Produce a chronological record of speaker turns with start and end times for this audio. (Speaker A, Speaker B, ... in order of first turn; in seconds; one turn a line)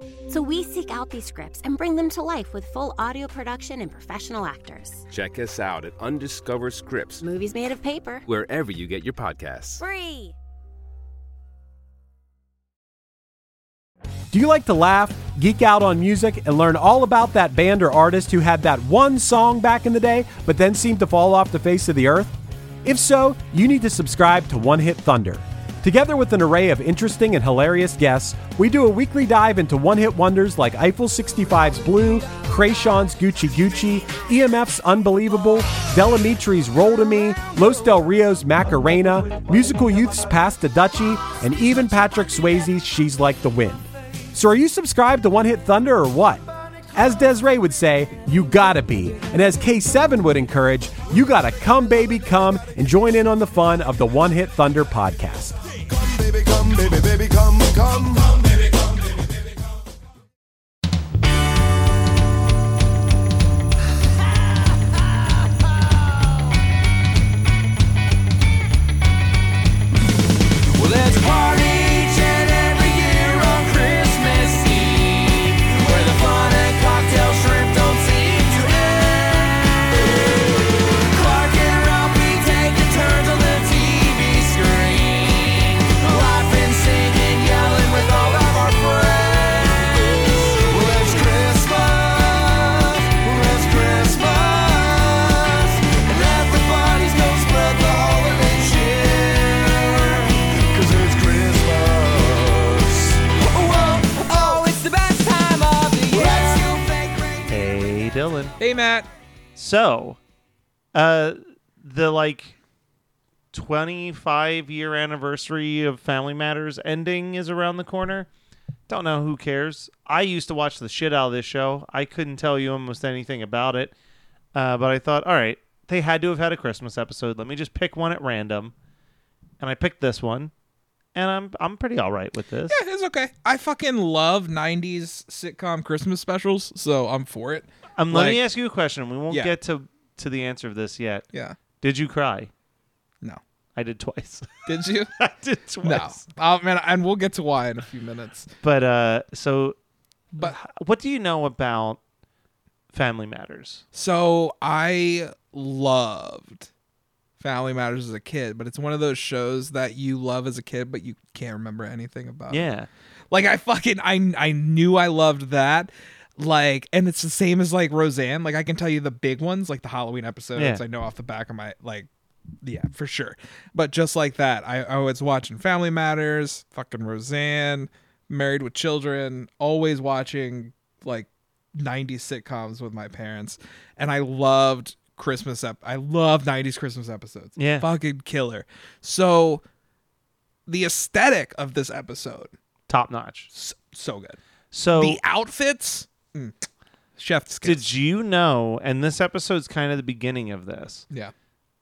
Speaker A: 0.3-5.0
Speaker B: 5.1-7.2
Speaker A: 7.2-8.2
Speaker B: 8.2-9.8
Speaker A: 9.8-10.3
Speaker C: 14.3-46.4
Speaker C: 46.9-55.5
Speaker D: 55.9-58.5
Speaker D: 70.7-107.6
Speaker E: 107.5-108.5
Speaker F: 108.6-109.1
Speaker E: 109.5-110.2
Speaker E: 110.9-112.5
Speaker E: 113.5-118.3
Speaker E: 118.9-123.9
Speaker E: 124.5-128.7
Speaker E: 129.6-130.5
Speaker E: 131.1-132.8
Speaker F: 132.7-138.4
Speaker E: 138.0-141.2
Speaker E: 141.8-142.5
Speaker E: 143.8-144.6
Speaker F: 144.7-145.1
Speaker E: 145.2-146.2
Speaker F: 145.8-148.5
Speaker E: 148.6-149.8
Speaker E: 150.4-152.0
Speaker E: 152.9-153.8
Speaker F: 153.9-156.7
Speaker F: 157.4-162.6
Speaker E: 162.5-162.9
Speaker F: 163.3-172.1
Speaker E: 170.6-170.8
Speaker F: 172.6-189.6
Speaker E: 187.6-187.9
Speaker F: 190.7-192.5
Speaker E: 192.9-193.5
Speaker F: 193.5-194.4
Speaker E: 194.7-195.2
Speaker F: 195.0-196.5
Speaker F: 197.2-197.9
Speaker E: 197.6-201.0